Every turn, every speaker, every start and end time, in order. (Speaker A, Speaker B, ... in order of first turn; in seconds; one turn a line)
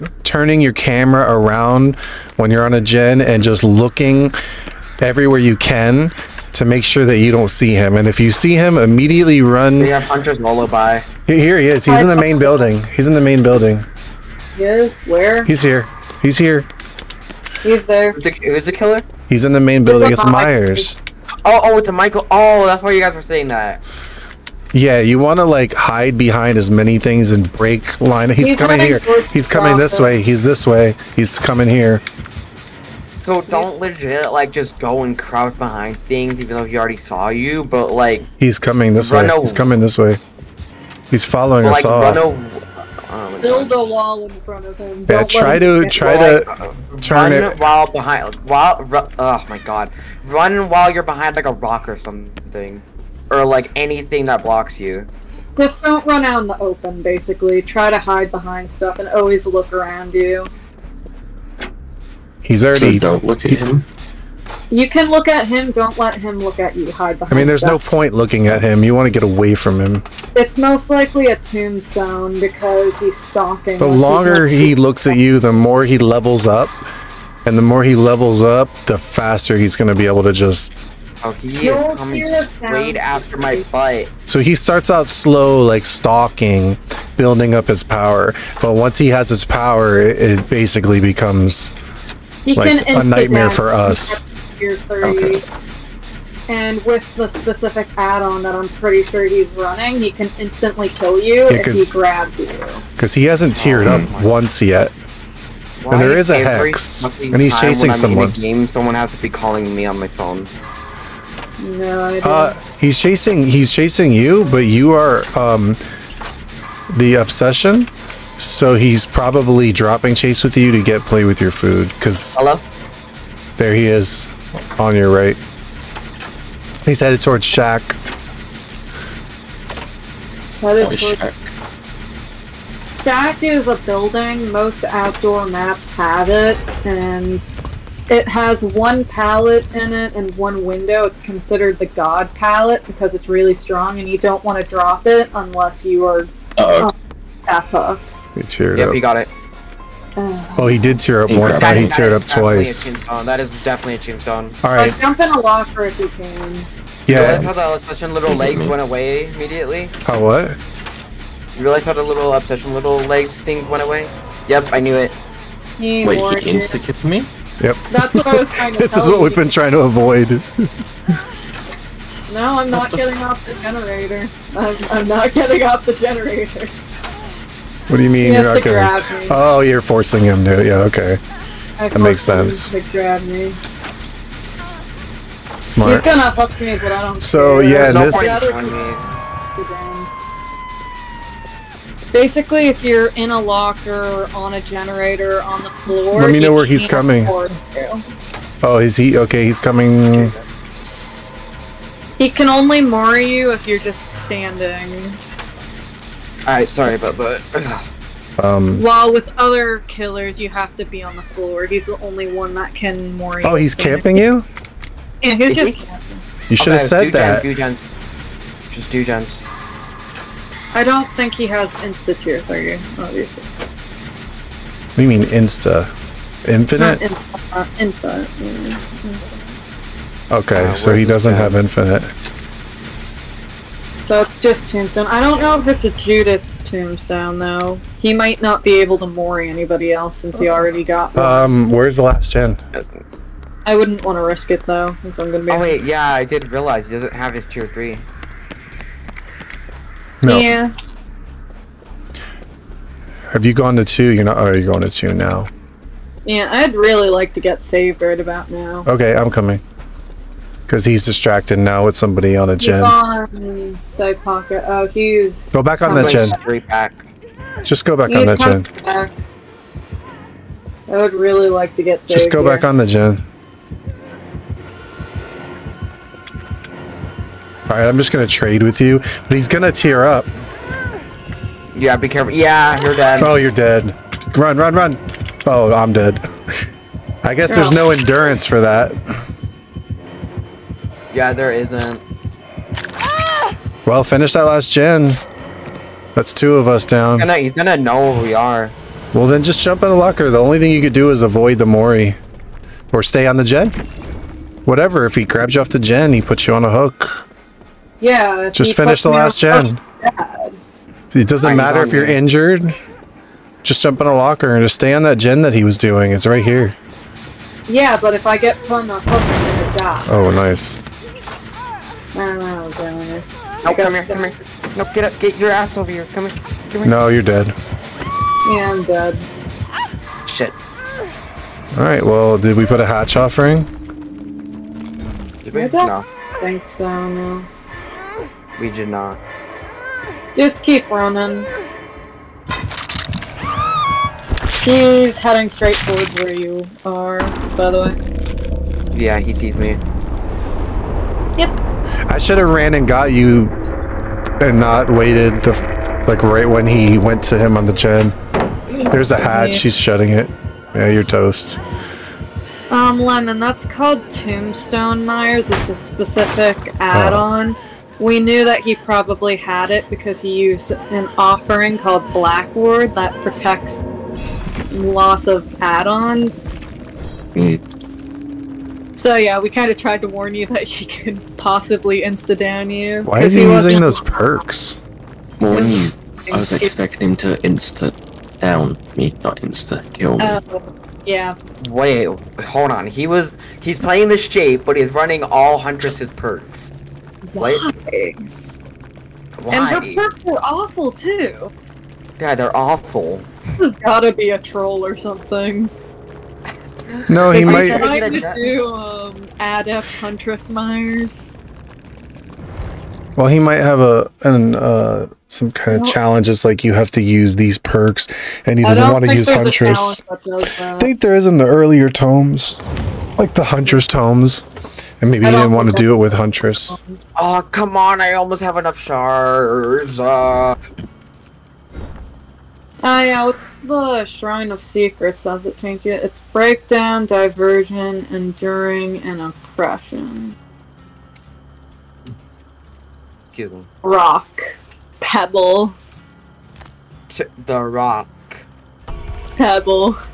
Speaker A: 0.2-4.3
Speaker A: 5.0-9.9
Speaker B: 9.8-11.1
Speaker A: 11.3-13.9
Speaker C: 11.9-12.7
Speaker C: 14.5-15.5
Speaker A: 15.4-16.7
Speaker C: 17.6-18.2
Speaker B: 18.1-19.1
Speaker A: 19.3-20.9
Speaker C: 19.9-20.9
Speaker B: 21.4-23.8
Speaker A: 24.7-32.0
Speaker C: 28.4-30.1
Speaker B: 33.2-38.3
Speaker A: 38.4-40.2
Speaker B: 39.0-39.6
Speaker A: 41.1-42.2
Speaker B: 41.6-43.9
Speaker C: 43.4-46.1
Speaker A: 45.1-46.5
Speaker B: 46.0-55.1
Speaker A: 47.0-47.6
Speaker C: 55.5-60.5
Speaker A: 62.4-63.6
Speaker D: 62.7-63.8
Speaker C: 64.7-67.8
Speaker A: 67.3-70.0
Speaker C: 70.3-74.8
Speaker A: 73.8-76.8
Speaker A: 77.4-80.7
Speaker B: 81.2-84.1
Speaker C: 81.6-83.6
Speaker A: 84.3-91.7
Speaker C: 92.4-95.4
Speaker A: 92.5-94.2
Speaker D: 95.0-95.4
Speaker C: 96.5-102.8
Speaker A: 101.5-101.9
Speaker A: 103.0-104.9
Speaker B: 103.5-104.3
Speaker B: 105.8-110.5
Speaker A: 105.9-108.3
Speaker C: 111.6-112.6
Speaker A: 112.2-115.8
Speaker A: 116.9-122.4
Speaker B: 122.3-122.6
Speaker A: 123.6-125.4
Speaker A: 126.8-128.0
Speaker C: 130.6-131.2
Speaker D: 130.8-131.5
Speaker C: 133.0-137.5
Speaker C: 138.1-146.9
Speaker D: 146.6-146.9
Speaker C: 147.5-148.0
Speaker A: 148.3-149.0
Speaker B: 148.7-149.3
Speaker C: 150.2-151.0
Speaker A: 150.6-152.9
Speaker D: 151.3-152.0
Speaker B: 151.4-154.6
Speaker A: 154.6-155.0
Speaker C: 154.8-156.7
Speaker A: 157.1-157.5
Speaker B: 157.1-159.9
Speaker D: 158.2-158.7
Speaker A: 160.0-160.6
Speaker B: 161.6-165.2
Speaker C: 165.8-166.8
Speaker D: 166.0-167.3
Speaker A: 167.6-170.7
Speaker C: 167.9-169.5
Speaker C: 172.3-176.7
Speaker D: 172.7-173.0
Speaker A: 177.9-181.2
Speaker C: 178.2-179.4
Speaker C: 181.8-183.6
Speaker A: 181.9-182.7
Speaker A: 185.6-186.1
Speaker C: 185.8-188.7
Speaker A: 187.2-188.5
Speaker B: 187.8-189.2
Speaker C: 189.6-190.2
Speaker C: 192.1-198.0
Speaker A: 196.1-197.3
Speaker A: 198.6-200.3
Speaker B: 200.1-200.4
Speaker C: 202.2-205.2
Speaker B: 206.4-207.8
Speaker A: 208.4-208.8
Speaker C: 208.8-214.2
Speaker A: 213.4-214.4
Speaker C: 215.2-216.2
Speaker B: 215.5-215.8
Speaker A: 216.5-217.5
Speaker B: 216.6-217.8
Speaker B: 218.7-219.4
Speaker C: 220.7-223.5
Speaker A: 224.9-225.9
Speaker A: 226.4-227.0
Speaker C: 226.8-229.5
Speaker A: 230.3-232.1
Speaker B: 230.5-231.6
Speaker C: 234.0-241.5
Speaker A: 241.2-242.6
Speaker C: 243.6-245.8
Speaker B: 245.5-248.1
Speaker A: 250.2-250.5
Speaker C: 250.2-250.7
Speaker A: 253.3-255.5
Speaker C: 256.2-258.9
Speaker A: 258.9-259.6
Speaker A: 260.7-262.9
Speaker C: 262.6-266.4
Speaker A: 265.5-266.4
Speaker B: 265.9-267.0
Speaker A: 267.6-268.7
Speaker C: 268.1-269.1
Speaker C: 270.9-272.6
Speaker A: 272.1-273.2
Speaker A: 277.7-280.3
Speaker B: 281.7-283.3
Speaker A: 283.2-286.2
Speaker A: 287.2-289.0
Speaker C: 287.5-287.8
Speaker B: 291.1-292.0
Speaker A: 293.9-295.2
Speaker A: 296.1-297.3
Speaker B: 297.2-298.8
Speaker A: 299.1-302.2
Speaker A: 302.9-303.8
Speaker A: 304.6-307.2
Speaker C: 308.0-310.6
Speaker A: 308.5-309.8
Speaker A: 311.1-312.8
Speaker B: 311.4-312.2
Speaker A: 313.6-316.8
Speaker C: 317.7-320.1
Speaker A: 320.1-320.8
Speaker C: 322.1-324.3
Speaker B: 323.6-326.9
Speaker A: 326.8-327.5
Speaker C: 328.4-329.2
Speaker B: 330.2-330.6
Speaker A: 331.7-333.7
Speaker B: 335.4-336.0
Speaker C: 335.5-337.5
Speaker B: 338.6-339.2
Speaker C: 340.3-341.5
Speaker C: 344.6-348.0
Speaker B: 348.9-349.8
Speaker A: 352.1-353.5
Speaker A: 354.4-358.1
Speaker C: 358.7-359.6
Speaker A: 358.9-361.6
Speaker C: 362.7-373.8
Speaker A: 366.9-367.3
Speaker C: 374.7-376.5
Speaker D: 377.3-377.6
Speaker C: 378.9-384.4
Speaker A: 383.0-384.8
Speaker D: 385.4-390.4
Speaker C: 385.5-386.7
Speaker C: 390.2-391.4
Speaker B: 391.6-396.7
Speaker C: 397.3-398.2
Speaker B: 397.4-397.7
Speaker B: 399.4-400.0
Speaker C: 399.5-401.5
Speaker B: 402.2-403.3
Speaker C: 403.6-405.7
Speaker A: 407.1-407.9
Speaker B: 407.1-408.4
Speaker C: 407.3-411.3
Speaker A: 413.1-420.0
Speaker C: 415.7-416.0
Speaker C: 418.6-420.9
Speaker A: 420.8-422.6
Speaker A: 423.2-424.4
Speaker A: 425.0-426.8
Speaker C: 425.2-425.9
Speaker C: 426.7-427.0
Speaker B: 427.1-430.6
Speaker C: 432.8-440.4
Speaker B: 443.3-443.7
Speaker C: 443.8-445.8
Speaker B: 447.1-448.4
Speaker C: 449.4-449.9